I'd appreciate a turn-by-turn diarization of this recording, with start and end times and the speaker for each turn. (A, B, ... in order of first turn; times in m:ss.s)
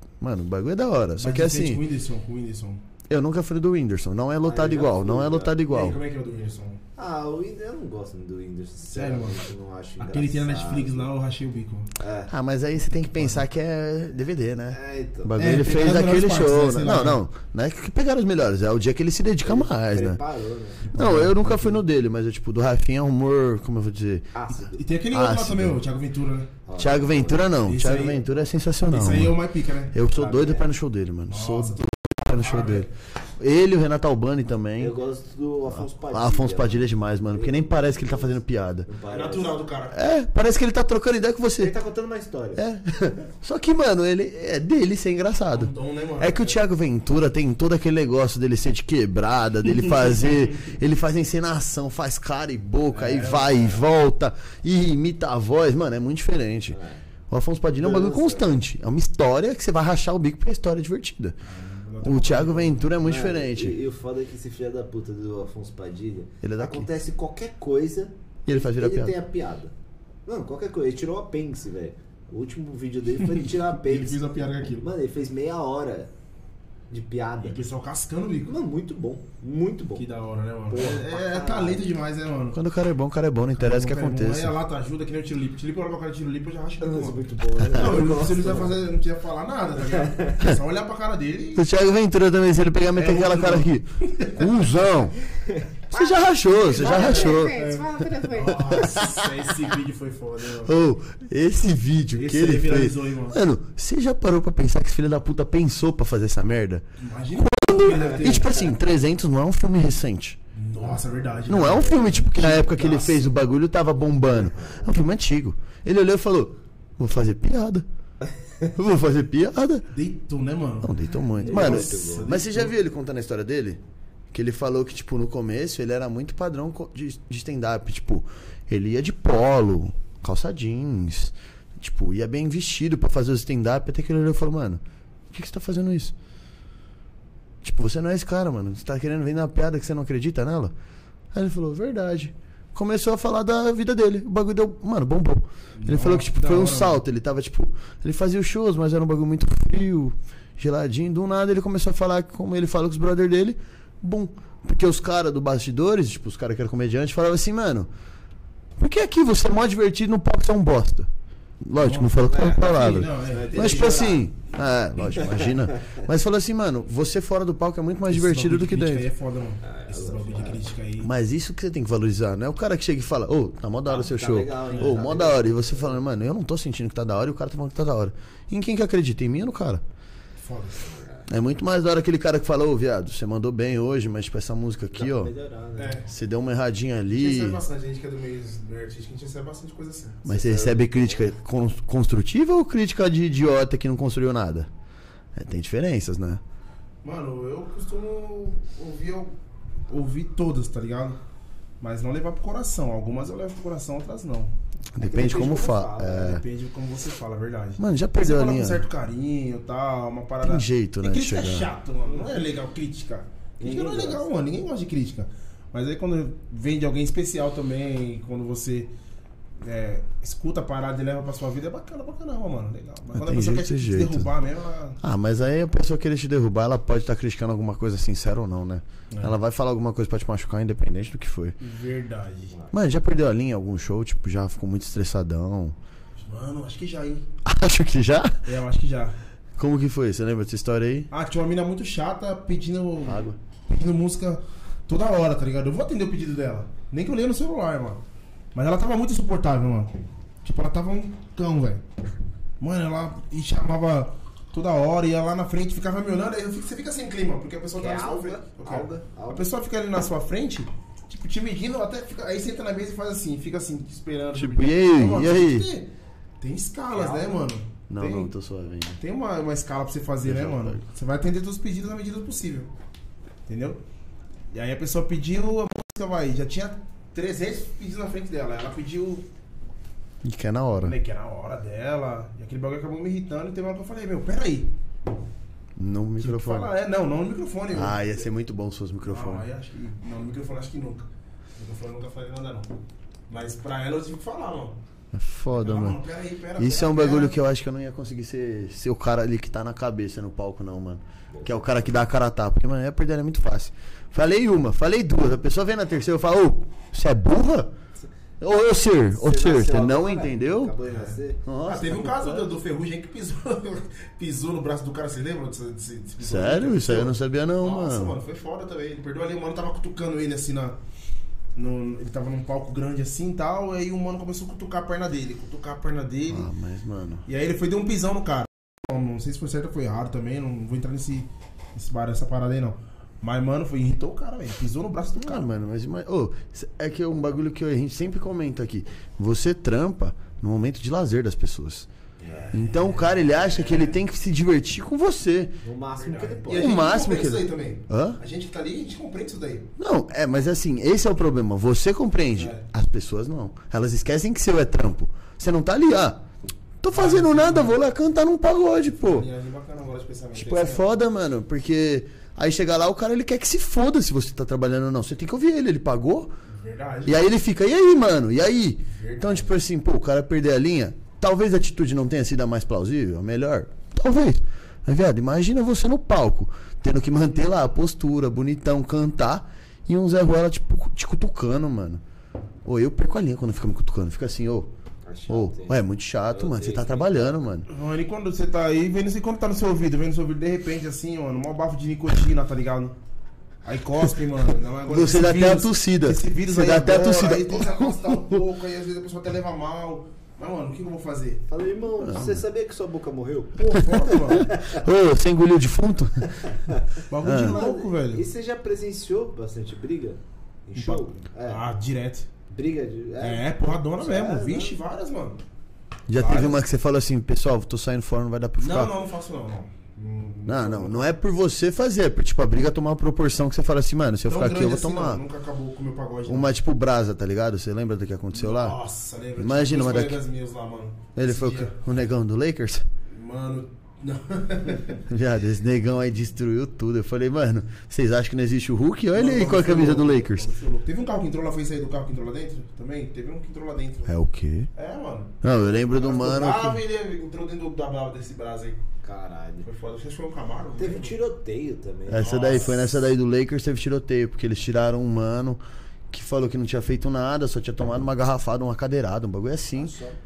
0:00.2-0:01.8 A
0:01.2-0:02.8 B
0:03.1-0:06.0 A
0:04.4-0:05.5 C
0:05.6-0:06.8 B
0:07.0-0:11.1 C
0:08.9-0:09.4 B
0:10.0-0:11.9 B
0:12.0-0:12.3 C
0:12.3-0:20.2 A
0:13.2-0:13.4 B
0:14.7-0:15.4 C
0:15.4-0:17.2 B
0:19.4-0:20.9 C
0:20.8-0:21.8 B
0:20.9-0:24.4 A
0:24.4-0:24.7 C
0:24.5-0:26.5 B
0:25.1-0:25.8 A
0:26.7-0:27.5 C
0:26.8-0:29.4 A
0:27.6-0:28.3 B
0:28.9-0:30.1 B
0:29.9-0:35.0 A
0:30.2-0:30.7 C
0:31.3-0:32.9 B
0:34.8-0:39.6 C
0:35.7-0:38.9 A
0:39.1-0:40.0 B
0:39.9-0:41.7 A
0:41.6-0:42.6 C
0:42.6-0:56.8 A
0:45.5-0:46.6 B
0:49.6-0:50.6 B
0:52.9-0:53.8 B
0:56.7-0:57.0 C
0:57.3-1:01.4 A
0:57.8-0:58.5 C
1:01.4-1:02.9 B
1:02.0-1:03.8 A
1:03.0-1:09.7 C
1:06.4-1:06.9 A
1:08.5-1:09.2 A
1:10.3-1:16.1 C
1:13.2-1:14.9 B
1:16.9-1:17.6 C
1:17.4-1:18.6 B
1:18.5-1:20.0 C
1:20.0-1:22.6 B
1:20.7-1:21.9 C
1:22.5-1:24.6 A
1:23.6-1:31.7 B
1:26.8-1:28.8 C
1:27.6-1:27.9 A
1:31.6-1:35.2 A
1:32.9-1:34.5 B
1:35.5-1:38.9 C
1:35.9-1:39.4 A
1:36.5-1:40.8 B
1:40.6-1:46.8 A
1:42.2-1:43.4 B
1:47.0-1:48.7 B
1:47.4-1:50.4 A
1:50.5-1:53.4 B
1:51.5-1:57.8 A
1:58.7-1:59.9 A
1:59.9-2:02.8 B
2:00.8-2:03.8 A
2:01.4-2:02.3 C
2:04.3-2:16.1 A
2:17.6-2:20.7 A
2:21.3-2:37.9 A
2:25.8-2:27.0 B
2:38.8-2:41.1 A
2:41.6-2:49.1 A
2:41.8-2:44.2 B
2:42.3-2:44.3 C
2:45.3-2:45.9 C
2:48.1-2:51.1 B
2:49.6-2:50.6 C
2:51.0-2:59.8 A
2:53.9-2:55.9 C
2:54.7-2:55.0 B
3:00.4-3:00.9 B
3:00.9-3:01.3 C
3:01.3-3:05.3 A
3:04.9-3:06.0 C
3:05.8-3:06.1 B
3:06.1-3:07.6 A
3:07.1-3:10.4 B
3:10.2-3:14.7 A
3:10.4-3:11.3 C
3:15.4-3:16.4 A
3:17.0-3:19.4 B
3:19.9-3:21.2 B
3:21.8-3:24.6 B
3:25.0-3:26.4 A
3:25.0-3:26.4 C
3:26.1-3:38.9 B
3:27.8-3:28.8 A
3:30.4-3:31.7 A
3:33.6-3:34.2 C
3:39.6-3:45.0 B
3:43.1-3:44.3 A
3:45.0-3:51.6 A
3:49.1-3:49.4 B
3:51.6-3:52.6 B
3:52.7-3:55.8 A
3:56.2-3:57.3 B
3:57.4-3:58.5 A
3:58.4-3:59.2 B
3:59.6-4:01.1 A
4:01.1-4:08.0 B
4:03.0-4:03.4 A
4:08.6-4:11.8 B
4:12.6-4:25.9 B
4:17.7-4:19.5 C
4:24.4-4:25.7 A
4:26.4-4:28.3 B
4:26.9-4:27.4 C
4:27.9-4:29.0 A
4:29.0-4:32.7 B
4:30.2-4:30.8 A
4:33.5-4:33.8 B
4:34.5-4:39.3 B
4:40.2-4:41.0 A
4:40.8-4:44.7 B
4:45.8-4:46.7 A
4:46.2-4:48.2 B
4:47.7-4:49.4 A
4:49.0-4:52.7 B
4:53.3-4:54.8 B
4:55.1-4:56.0 A
4:55.5-4:57.4 B
4:56.6-5:07.7 A
5:01.3-5:01.8 C
5:08.4-5:10.8 A
5:09.2-5:11.4 C
5:10.9-5:20.8 B
5:11.4-5:12.2 A
5:16.2-5:18.2 A
5:21.6-5:26.5 B
5:26.3-5:27.2 A
5:27.3-5:35.5 B
5:35.2-5:41.9 A
5:42.2-5:42.5 C
5:42.3-5:44.0 B
5:42.5-5:45.6 A
5:45.6-5:46.9 C
5:46.0-5:49.7 B
5:46.5-5:48.2 A
5:49.8-5:56.2 A
5:52.3-5:52.6 B
5:56.8-5:59.3 A
5:56.9-5:57.8 B
5:58.8-6:01.0 B
6:00.4-6:06.3 A
6:06.5-6:07.3 B
6:07.1-6:22.0 A
6:08.9-6:09.6 B
6:22.6-6:24.7 A
6:25.1-6:25.8 C
6:25.3-6:27.7 A
6:26.3-6:27.4 C
6:27.7-6:33.0 B
6:33.6-6:41.4 B
6:34.9-6:38.4 A
6:41.5-6:44.8 C
6:42.0-6:42.4 A
6:43.6-6:44.5 B
6:44.3-6:46.3 A
6:46.5-6:46.8 C
6:47.1-6:48.2 B
6:47.2-6:47.6 A
6:47.3-6:51.6 C
6:50.8-6:52.3 B
6:52.5-6:54.8 C
6:53.2-6:55.4 B
6:56.1-6:59.0 A
6:56.2-6:56.6 B
6:58.6-7:01.1 B
7:00.5-7:05.2 A
7:04.3-7:06.6 B
7:06.3-7:08.8 A
7:08.3-7:11.8 B
7:09.4-7:10.2 A
7:11.2-7:12.8 A
7:13.1-7:15.0 B
7:15.0-7:20.5 A
7:19.1-7:24.1 B
7:24.1-7:24.7 A
7:24.7-7:28.8 B
7:25.4-7:26.8 A
7:29.0-7:29.7 C
7:29.6-7:31.2 B
7:30.8-7:32.6 C
7:32.1-7:40.0 A
7:32.1-7:33.0 B
7:39.8-7:40.2 C